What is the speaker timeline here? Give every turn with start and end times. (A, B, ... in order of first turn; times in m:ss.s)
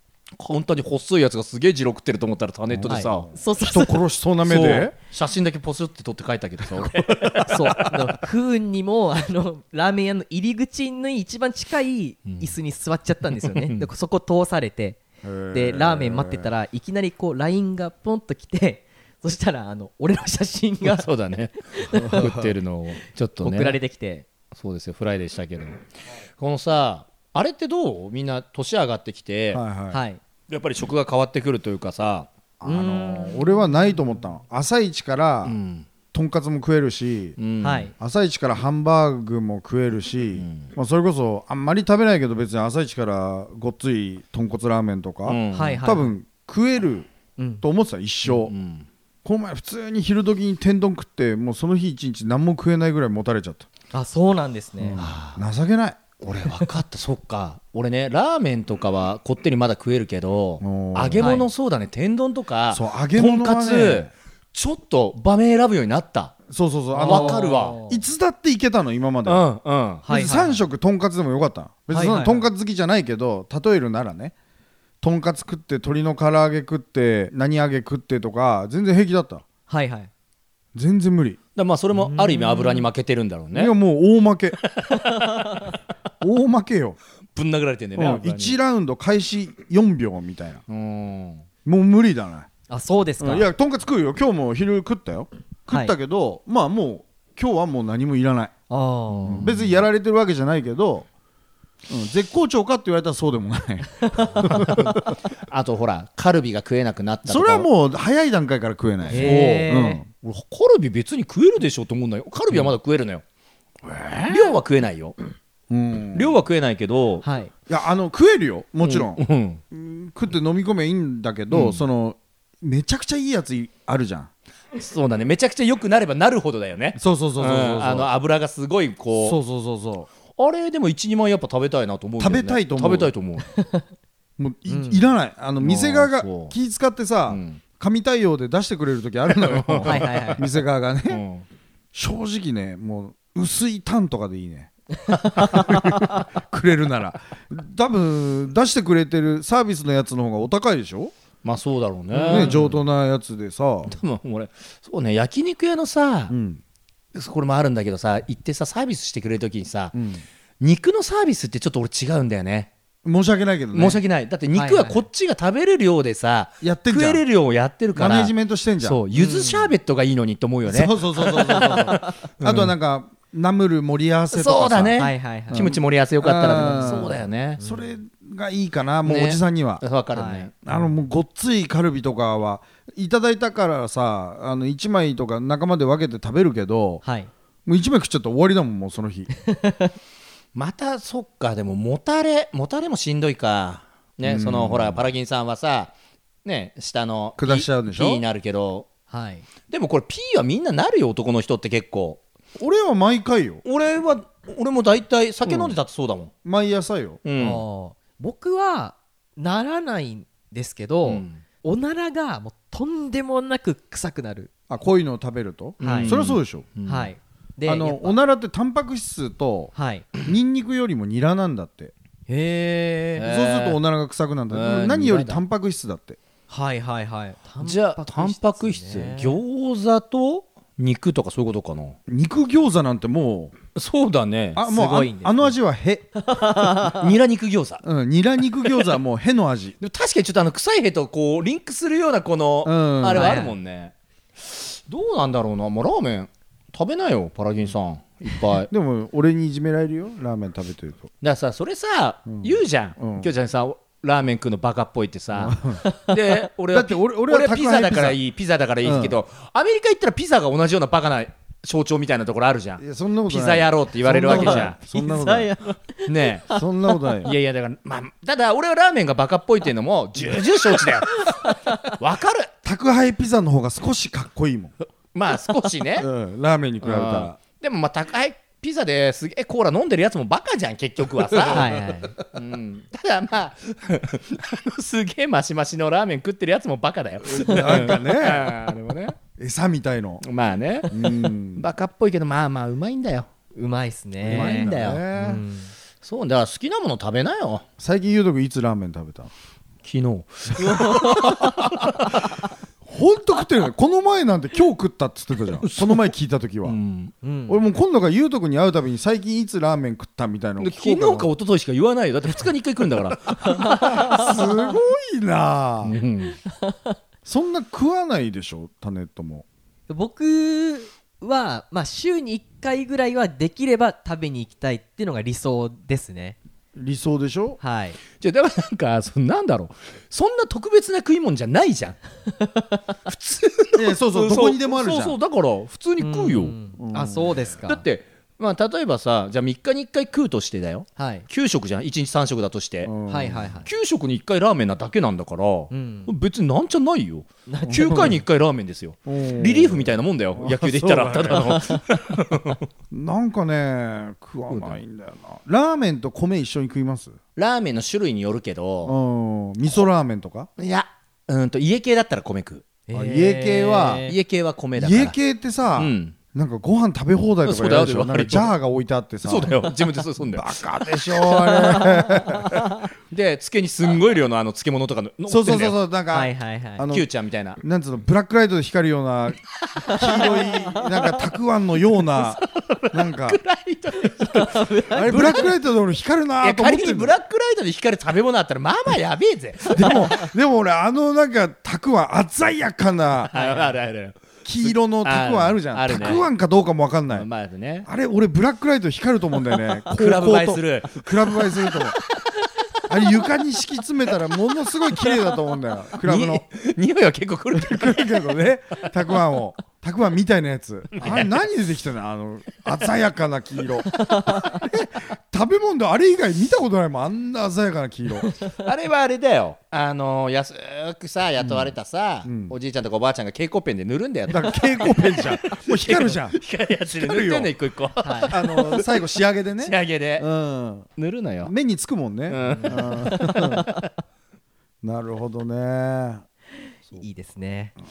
0:00.4-0:03.3 A
0:02.7-0:04.9 B
0:02.9-0:04.0 C
0:04.4-0:08.1 A
0:07.1-0:07.4 B
0:07.4-0:15.0 C
0:12.3-0:12.5 A
0:13.3-0:13.9 A
0:15.2-0:16.5 B
0:15.5-0:21.0 C
0:20.8-0:23.8 A
0:21.7-0:22.3 C
0:22.1-0:22.5 B
0:23.4-0:24.3 C
0:24.5-0:25.9 A
0:26.4-0:29.6 A
0:29.5-0:30.0 B
0:29.9-0:30.2 C
0:30.5-0:32.3 A
0:32.6-0:35.6 B
0:32.6-0:33.9 C
0:35.4-0:35.9 A
0:36.1-0:37.4 B
0:37.4-0:37.9 A
0:37.6-0:37.9 C
0:38.0-0:47.1 B
0:40.4-0:40.7 A
0:45.2-0:45.8 A
0:45.5-0:46.1 C
0:47.4-0:47.6 C
0:47.6-0:48.5 B
0:48.2-0:48.9 A
0:49.2-0:53.7 B
0:53.9-0:55.0 C
0:54.8-0:56.1 B
0:55.0-0:55.4 A
0:56.2-1:06.4 A
1:00.6-1:01.3 B
1:01.2-1:01.5 C
1:02.7-1:04.1 B
1:06.5-1:09.4 B
1:06.9-1:08.0 C
1:07.0-1:07.8 A
1:09.2-1:10.0 A
1:10.1-1:10.6 C
1:10.1-1:14.3 B
1:11.9-1:12.5 C
1:15.0-1:19.4 B
1:19.7-1:20.1 C
1:20.7-1:21.4 B
1:21.5-1:23.7 A
1:22.0-1:22.9 C
1:23.5-1:24.6 B
1:25.0-1:25.7 C
1:26.2-1:27.0 B
1:27.3-1:28.6 A
1:28.0-1:30.6 B
1:30.7-1:31.4 A
1:31.6-1:32.5 B
1:32.7-1:33.5 C
1:33.2-1:38.5 B
1:35.7-1:35.9 C
1:38.7-1:39.5 C
1:39.1-1:39.8 A
1:39.3-1:41.1 B
1:41.9-1:44.8 B
1:44.1-1:44.5 C
1:44.5-1:47.7 A
1:47.2-1:50.0 B
1:49.1-1:49.7 A
1:49.1-1:50.0 C
1:50.2-1:53.2 A
1:53.8-1:54.6 B
1:54.3-1:55.2 A
1:55.7-1:56.4 B
1:56.1-1:57.2 A
1:57.2-1:57.5 C
1:57.7-2:04.3 B
1:58.8-1:59.6 A
2:01.5-2:01.8 A
2:04.7-2:09.4 A
2:07.0-2:08.1 B
2:09.2-2:10.1 B
2:10.4-2:13.4 A
2:12.2-2:13.1 B
2:13.5-2:13.8 C
2:14.4-2:21.2 B
2:14.7-2:15.0 C
2:15.6-2:16.5 A
2:17.3-2:17.6 A
2:19.3-2:20.5 A
2:19.8-2:20.4 C
2:21.1-2:21.4 A
2:21.9-2:24.7 B
2:25.2-2:31.1 B
2:25.4-2:26.0 A
2:31.4-2:32.8 A
2:32.1-2:33.9 B
2:32.3-2:32.6 C
2:33.8-2:36.3 A
2:36.3-2:36.6 B
2:37.1-2:40.0 A
2:39.9-2:40.2 B
2:40.6-2:42.7 A
2:43.0-2:44.0 B
2:43.7-2:52.7 A
2:44.5-2:45.0 C
2:46.6-2:47.2 B
2:47.9-2:49.0 B
2:49.1-2:49.7 C
2:50.7-2:59.8 B
2:51.8-2:52.0 C
2:54.3-2:57.6 A
2:55.0-2:55.7 C
2:56.5-2:57.9 C
2:59.0-3:00.6 A
3:00.1-3:00.8 C
3:00.6-3:07.0 B
3:07.0-3:07.3 C
3:07.6-3:09.3 B
3:09.4-3:09.9 C
3:10.5-3:15.9 A
3:14.2-3:15.0 B
3:16.4-3:18.9 A
3:17.4-3:18.2 B
3:19.1-3:19.4 C
3:19.7-3:22.2 A
3:22.6-3:23.6 B
3:23.6-3:26.3 A
3:25.4-3:25.7 B
3:26.4-3:27.2 B
3:27.2-3:27.6 A
3:27.4-3:34.5 C
3:31.0-3:31.4 A
3:34.7-3:36.7 B
3:35.8-3:37.1 A
3:35.8-3:36.1 C
3:36.8-3:38.2 C
3:37.6-3:39.7 B
3:39.7-3:40.1 C
3:40.2-3:41.9 B
3:42.3-3:43.2 C
3:43.2-3:43.8 A
3:43.2-3:46.2 B
3:44.5-3:45.4 A
3:46.5-3:49.4 C
3:47.6-3:52.0 A
3:52.1-3:53.6 B
3:53.7-3:54.6 A
3:54.5-3:56.1 B
3:54.6-3:55.5 C
3:56.2-3:57.1 C
3:56.8-3:57.8 A
3:57.8-3:59.8 B
3:59.8-4:08.7 A
4:02.6-4:03.4 B
4:03.1-4:03.5 C
4:08.7-4:11.1 B
4:11.2-4:24.8 A
4:12.3-4:13.3 B
4:15.3-4:15.8 B
4:15.8-4:16.1 C
4:16.7-4:18.2 B
4:18.8-4:19.2 B
4:22.8-4:25.6 B
4:24.2-4:27.3 C
4:26.0-4:26.5 A
4:26.5-4:27.3 B
4:27.2-4:32.5 A
4:31.1-4:31.9 C
4:32.6-4:34.7 B
4:35.1-4:36.1 A
4:36.0-4:37.4 B
4:36.8-4:49.2 A
4:41.4-4:42.1 C
4:47.3-4:48.6 B
4:49.4-4:50.2 B
4:50.2-4:53.3 A
4:50.9-4:51.6 B
4:53.5-4:55.7 C
4:54.2-4:55.1 A
4:54.2-4:55.4 B
4:56.0-4:57.6 A
4:57.8-4:59.3 B
4:59.8-5:02.2 A
5:00.7-5:01.4 C
5:00.7-5:01.8 B
5:02.8-5:06.8 B
5:05.6-5:06.1 A
5:06.6-5:07.1 A
5:07.2-5:07.6 C
5:07.5-5:11.3 B
5:10.6-5:14.4 A
5:13.4-5:14.3 C
5:13.6-5:16.0 B
5:15.8-5:16.4 A
5:16.5-5:17.0 C
5:17.2-5:19.4 B
5:19.9-5:26.4 C
5:26.8-5:27.6 B
5:27.6-5:28.0 C
5:28.2-5:32.0 A
5:32.4-5:32.8 C
5:33.1-5:36.5 A
5:33.7-5:35.2 B
5:36.0-5:37.8 C
5:36.8-5:37.4 B
5:37.7-5:42.9 A
5:41.0-5:41.2 C
5:42.8-5:43.5 B
5:43.1-5:43.7 C
5:43.6-5:52.6 A
5:45.7-5:46.1 C
5:47.5-5:48.1 C
5:47.7-5:48.2 B
5:49.0-5:51.6 B
5:52.9-5:57.2 B
5:54.5-5:54.8 A
5:57.4-5:59.0 A
5:58.8-6:00.5 B
6:00.6-6:02.6 A
6:02.9-6:04.1 C
6:02.9-6:04.1 B
6:04.0-6:05.2 A
6:04.8-6:09.7 B
6:05.8-6:06.2 A
6:07.4-6:08.5 A
6:09.2-6:10.6 A
6:10.3-6:12.7 B
6:11.7-6:12.7 C
6:13.1-6:15.8 A
6:15.3-6:17.1 B
6:16.1-6:16.8 C
6:16.9-6:17.6 A
6:17.6-6:23.4 B
6:19.9-6:20.7 C
6:22.1-6:25.5 A
6:24.2-6:25.5 C
6:24.9-6:27.1 B
6:26.4-6:30.3 A
6:29.7-6:33.3 B
6:33.3-6:36.3 A
6:33.3-6:33.7 C
6:34.4-6:37.3 B
6:37.1-6:37.9 A
6:37.8-6:42.0 B
6:39.9-6:42.3 A
6:42.9-6:46.4 B
6:46.0-6:48.8 A
6:47.5-6:58.3 B
6:50.9-6:51.4 A
6:54.0-6:54.6 C
6:58.6-7:08.9 A
7:01.4-7:01.7 B
7:02.2-7:02.5 B
7:04.3-7:06.4 B
7:06.9-7:07.5 B
7:08.0-7:08.3 C
7:08.3-7:10.9 B
7:09.6-7:10.3 A
7:11.0-7:11.5 A
7:11.4-7:13.6 B
7:12.3-7:13.8 A
7:12.5-7:13.7 C
7:14.8-7:16.2 B
7:16.9-7:17.7 C